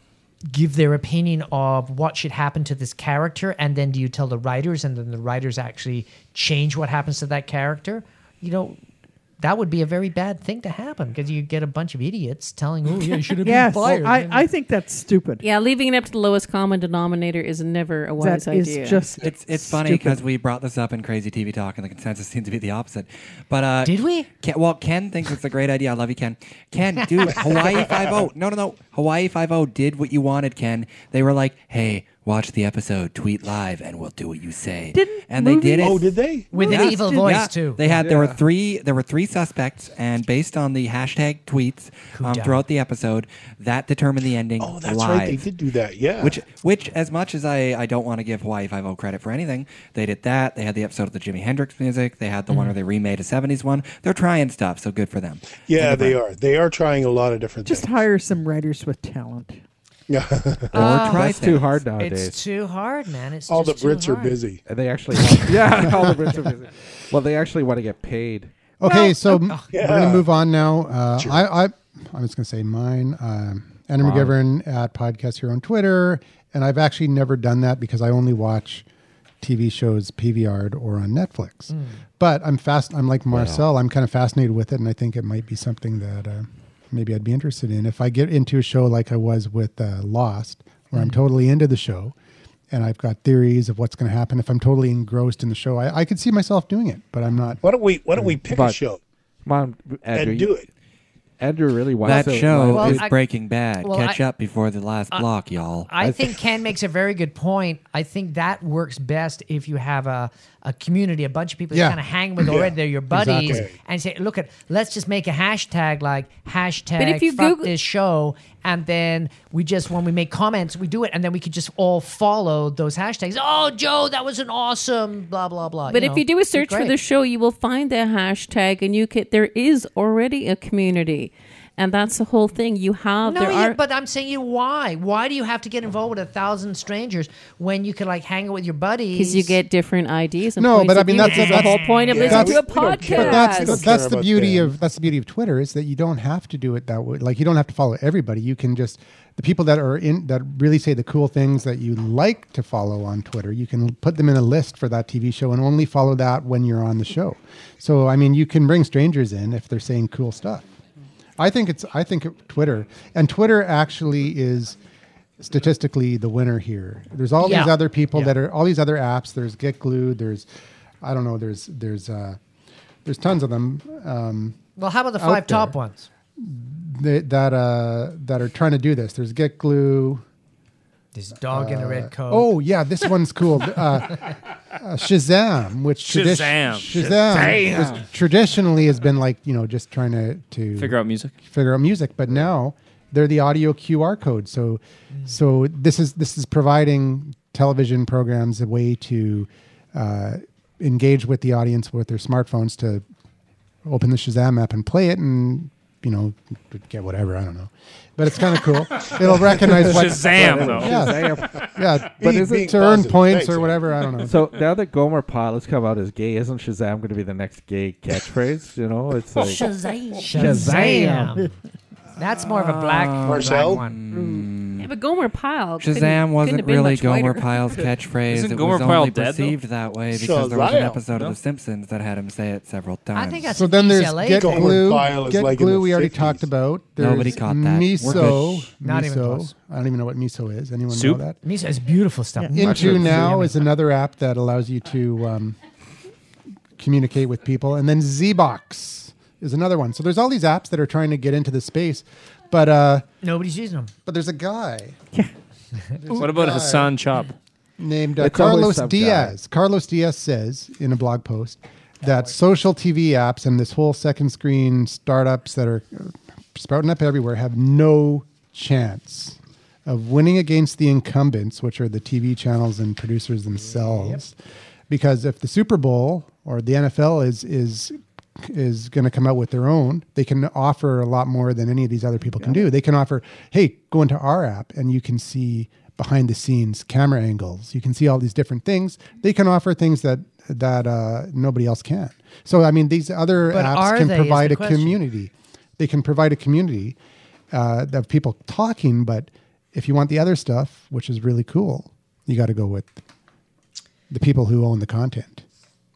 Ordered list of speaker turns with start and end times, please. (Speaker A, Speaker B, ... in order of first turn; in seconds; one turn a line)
Speaker A: 0.5-8.8
Speaker A: 9.4-14.5
Speaker B: 13.4-15.4
Speaker C: 15.4-19.1
Speaker B: 18.2-20.2
Speaker D: 19.2-45.5
Speaker A: 23.8-24.3
Speaker E: 27.3-28.1
Speaker B: 34.9-37.4
Speaker E: 35.8-36.5
Speaker A: 36.5-37.9
Speaker F: 37.8-38.4
Speaker A: 42.1-42.6
Speaker E: 44.6-46.4
Speaker D: 46.2-56.2
Speaker E: 55.6-57.9
Speaker B: 57.6-59.6
Speaker E: 60.1-60.8
Speaker D: 60.7-61.7
Speaker A: 60.7-64.4
Speaker F: 60.8-62.4
Speaker E: 63.5-64.6
Speaker F: 64.7-68.5
Speaker G: 65.8-66.2
Speaker G: 68.8-78.8
Speaker A: 68.8-69.6
Speaker E: 69.7-70.3
Speaker E: 71.2-71.5
Speaker F: 74.0-74.3
Speaker G: 79.4-92.1
Speaker A: 81.7-82.0
Speaker F: 83.3-83.6
Speaker G: 92.7-97.6
Speaker E: 97.6-99.0
Speaker F: 98.3-98.8
Speaker F: 99.5-100.6
Speaker E: 100.1-100.7
Speaker F: 101.4-103.1
Speaker D: 102.0-105.9
Speaker A: 102.1-103.2
Speaker A: 103.8-104.2
Speaker A: 105.9-126.9
Speaker F: 106.0-106.3
Speaker G: 111.7-112.0
Speaker E: 112.4-112.8
Speaker G: 113.1-113.7
Speaker E: 113.4-113.7
Speaker C: 117.0-117.7
Speaker C: 125.9-133.8
Speaker A: 133.2-139.6
Speaker C: 139.1-143.8
Speaker G: 140.6-160.7
Speaker A: 141.2-142.4
Speaker E: 142.1-144.7
Speaker G: 161.4-164.8
Speaker G: 165.4-170.5
Speaker A: 167.4-168.3
Speaker G: 171.0-172.4
Speaker G: 173.0-174.6
Speaker A: 174.8-176.1
Speaker G: 175.2-175.8
Speaker G: 176.4-180.2
Speaker A: 181.1-182.5
Speaker G: 181.5-203.0
Speaker H: 186.1-187.8
Speaker F: 187.3-188.0
Speaker H: 190.8-191.3
Speaker G: 203.8-214.4
Speaker H: 209.8-210.9
Speaker F: 210.3-211.7
Speaker E: 212.2-213.8
Speaker F: 214.2-219.7
Speaker A: 219.4-221.5
Speaker F: 220.3-221.5
Speaker A: 222.2-224.0
Speaker D: 222.6-224.9
Speaker E: 223.2-223.8
Speaker C: 224.8-227.5
Speaker D: 225.8-233.5
Speaker H: 228.3-229.6
Speaker E: 230.1-231.0
Speaker H: 231.1-231.3
Speaker A: 233.1-234.7
Speaker G: 233.5-241.4
Speaker E: 234.4-236.5
Speaker D: 237.0-238.7
Speaker A: 238.8-239.5
Speaker H: 240.9-241.2
Speaker A: 241.4-243.5
Speaker B: 242.4-242.7
Speaker G: 242.5-245.6
Speaker F: 242.6-243.3
Speaker G: 246.8-253.0
Speaker A: 253.2-253.9
Speaker G: 254.1-255.0
Speaker G: 256.0-257.0
Speaker H: 256.1-257.3
Speaker G: 257.8-274.4
Speaker F: 258.2-259.4
Speaker G: 274.9-297.0
Speaker A: 293.5-295.0
Speaker G: 297.5-303.0
Speaker G: 304.1-305.4